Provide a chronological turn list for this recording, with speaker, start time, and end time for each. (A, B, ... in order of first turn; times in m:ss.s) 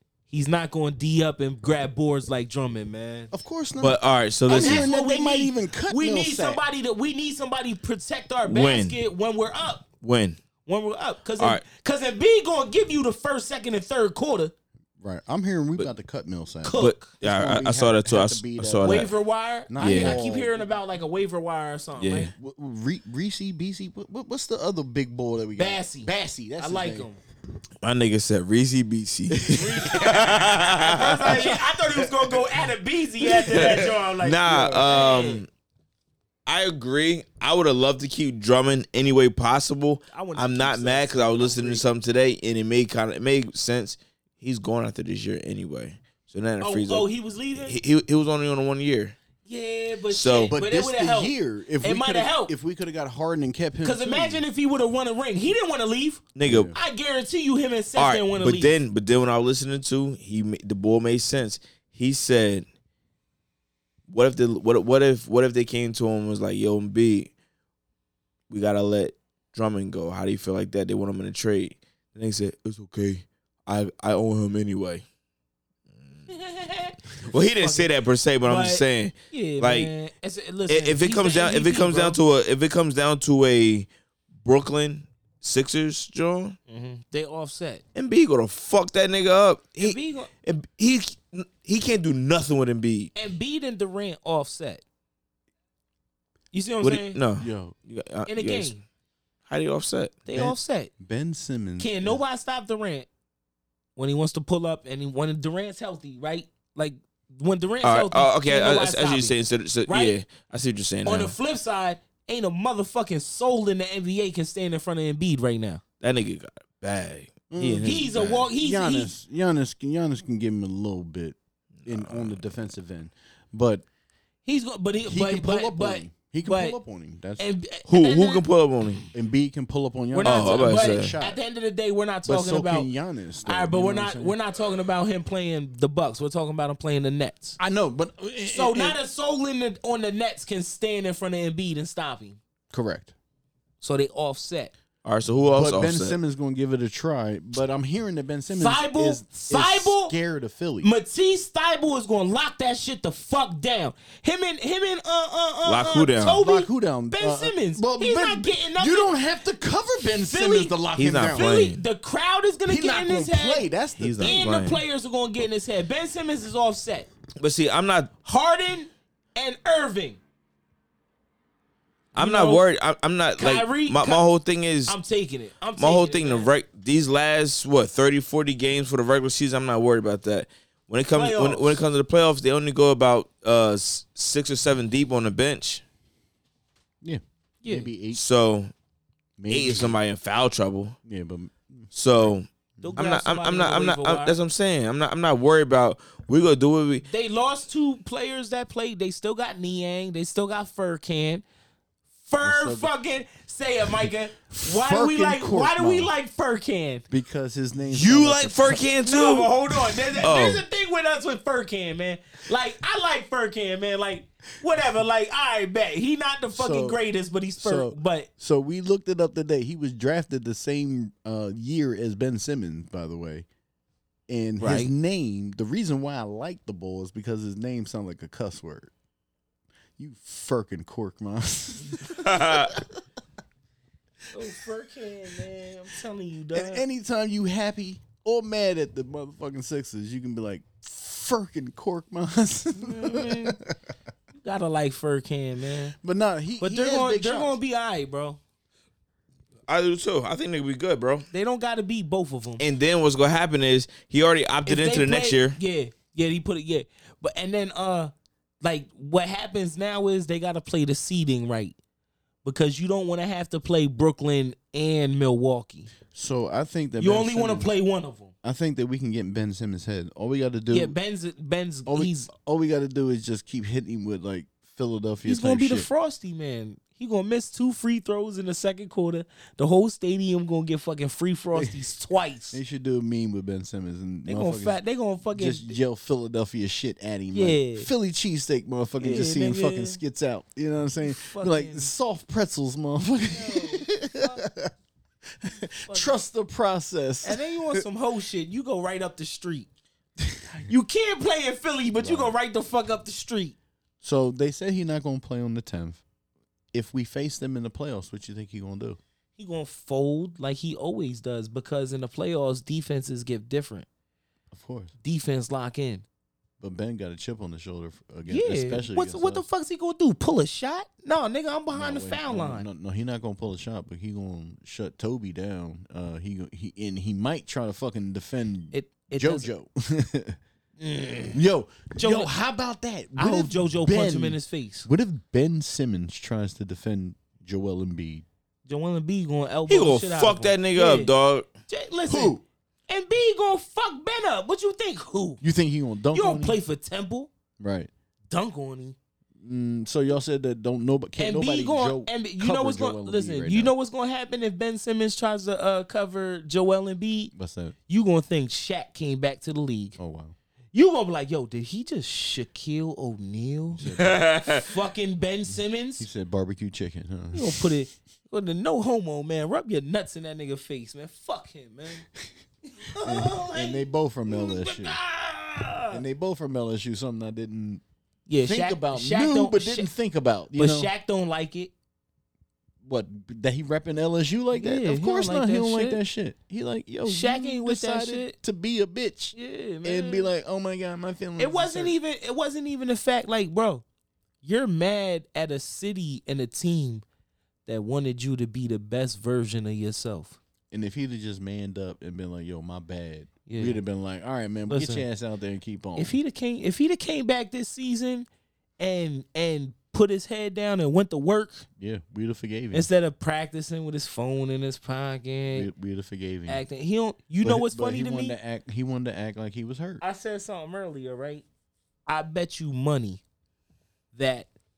0:00.3-0:03.3 A
0:03.3-0:06.6 B
0:03.8-0:04.9 C
0:04.5-0:09.9 A
0:08.5-0:09.0 C
0:10.0-0:10.4 C
0:10.6-0:14.5 A
0:15.0-0:19.1 B
0:16.6-0:17.1 A
0:16.8-0:19.1 C
0:18.8-0:22.3 A
0:19.7-0:20.7 B
0:19.8-0:20.2 C
0:22.0-0:22.3 C
0:22.4-0:27.1 B
0:25.6-0:27.2 A
0:27.8-0:31.5 C
0:29.3-0:30.9 B
0:29.8-0:35.4 A
0:33.4-0:35.5 C
0:36.4-0:47.1 C
0:40.1-0:41.8 A
0:46.6-0:47.8 A
0:47.6-0:49.2 C
0:49.4-0:52.5 A
0:50.1-0:50.5 C
0:50.5-0:54.4 B
0:53.8-0:58.8 A
0:56.3-0:56.7 C
0:56.4-0:56.8 B
0:58.0-1:02.6 C
1:04.1-1:07.3 C
1:08.5-1:15.0 C
1:16.0-1:16.2 C
1:16.3-1:22.2 A
1:17.2-1:19.9 C
1:20.7-1:23.9 C
1:24.4-1:26.6 C
1:26.7-1:27.8 A
1:27.9-1:33.1 C
1:29.8-1:30.3 A
1:33.1-1:34.8 A
1:36.5-1:37.2 A
1:36.8-1:38.7 C
1:37.4-1:37.8 B
1:38.3-1:38.8 A
1:39.5-1:40.3 C
1:40.2-1:40.9 A
1:40.3-1:42.2 B
1:41.8-1:43.1 A
1:44.0-1:49.3 A
1:47.8-1:51.3 C
1:49.9-1:50.2 A
1:51.0-1:55.8 A
1:56.0-1:58.3 C
1:57.5-2:03.8 B
1:57.8-1:59.1 A
2:01.8-2:02.4 C
2:04.4-2:06.8 A
2:05.0-2:07.4 B
2:07.4-2:08.4 A
2:07.9-2:09.0 C
2:09.1-2:11.4 B
2:10.1-2:12.9 A
2:10.2-2:11.2 C
2:12.2-2:14.4 B
2:13.4-2:17.6 A
2:17.6-2:19.0 B
2:18.5-2:22.4 A
2:22.7-2:23.1 B
2:23.8-2:24.7 A
2:25.0-2:26.2 C
2:25.5-2:30.9 B
2:28.5-2:30.1 A
2:30.8-2:39.1 A
2:35.6-2:36.4 C
2:36.4-2:41.4 B
2:40.2-2:40.8 A
2:41.0-2:41.8 C
2:41.3-2:47.1 A
2:42.7-2:44.5 B
2:44.0-2:44.8 C
2:47.4-2:48.1 C
2:48.2-2:50.2 A
2:52.1-2:52.6 A
2:52.1-2:55.0 C
2:53.4-2:54.2 A
2:54.9-2:56.5 A
2:55.8-3:05.8 C
3:01.1-3:01.8 A
3:07.0-3:08.2 B
3:07.6-3:07.9 A
3:08.1-3:08.7 C
3:09.4-3:10.0 B
3:09.5-3:11.0 C
3:11.0-3:11.9 B
3:11.9-3:17.0 C
3:12.8-3:14.4 A
3:17.1-3:21.4 A
3:22.2-3:27.0 A
3:22.4-3:22.9 B
3:24.6-3:26.1 B
3:27.1-3:28.8 B
3:27.9-3:29.5 C
3:29.0-3:38.3 A
3:30.2-3:30.6 C
3:36.5-3:37.0 B
3:37.6-3:43.4 B
3:44.3-3:48.9 B
3:44.6-3:44.9 C
3:50.0-3:52.8 B
3:52.2-3:52.7 C
3:54.3-3:56.8 A
3:56.5-4:03.7 B
4:02.8-4:03.6 A
4:04.3-4:06.0 A
4:06.0-4:07.6 B
4:06.6-4:08.4 A
4:09.7-4:11.2 C
4:11.3-4:12.6 A
4:12.6-4:15.6 C
4:14.6-4:21.7 A
4:22.4-4:25.9 A
4:26.1-4:27.7 B
4:27.0-4:28.3 A
4:28.4-4:30.9 B
4:30.7-4:32.3 A
4:31.9-4:35.9 B
4:35.2-4:42.6 A
4:42.5-4:44.8 B
4:44.3-4:45.8 A
4:45.3-4:54.7 B
4:47.3-4:47.9 A
4:49.0-4:50.0 A
4:51.0-4:51.9 A
4:53.3-4:54.4 A
4:55.4-4:57.8 B
4:55.9-4:56.2 A
4:57.2-4:59.7 A
5:00.5-5:03.6 A
5:02.0-5:02.4 B
5:04.0-5:06.0 B
5:06.7-5:09.0 B
5:09.4-5:13.8 A
5:14.5-5:14.9 B
5:15.0-5:16.0 A
5:16.6-5:19.4 B
5:18.3-5:22.6 A
5:21.7-5:30.4 B
5:28.7-5:29.4 A
5:30.8-5:31.4 A
5:31.3-5:38.2 B
5:32.0-5:32.3 A
5:33.2-5:34.9 A
5:38.7-5:41.1 A
5:39.7-5:41.5 C
5:41.7-5:42.4 A
5:42.1-5:42.4 B
5:42.9-5:45.4 A
5:45.4-5:46.6 B
5:46.1-5:47.3 A
5:47.6-5:47.9 B
5:48.3-5:48.9 A
5:49.4-5:53.7 B
5:51.2-5:57.3 A
5:57.3-5:57.7 B
5:57.9-6:00.0 A
6:00.0-6:00.3 B
6:00.7-6:03.8 A
6:03.7-6:04.3 B
6:03.9-6:04.7 C
6:04.5-6:06.1 A
6:06.0-6:07.7 B
6:07.3-6:12.0 A
6:12.8-6:16.0 A
6:13.0-6:15.0 B
6:15.9-6:17.8 B
6:18.3-6:19.9 A
6:18.4-6:20.9 B
6:20.6-6:21.7 A
6:22.8-6:31.9 B
6:24.5-6:26.0 A
6:27.0-6:28.4 A
6:29.4-6:30.3 A
6:31.4-6:33.8 A
6:34.4-6:37.0 A
6:37.6-6:40.4 A
6:40.7-6:46.2 B
6:43.5-6:43.8 A
6:44.7-6:45.0 A
6:46.0-6:48.3 A
6:48.8-6:51.6 A
6:51.8-6:52.9 B
6:52.7-6:55.7 A
6:55.5-6:56.6 B
6:56.5-6:58.4 A
6:57.4-7:00.0 B
7:00.0-7:01.4 A
7:02.1-7:03.2 A
7:04.1-7:04.5 A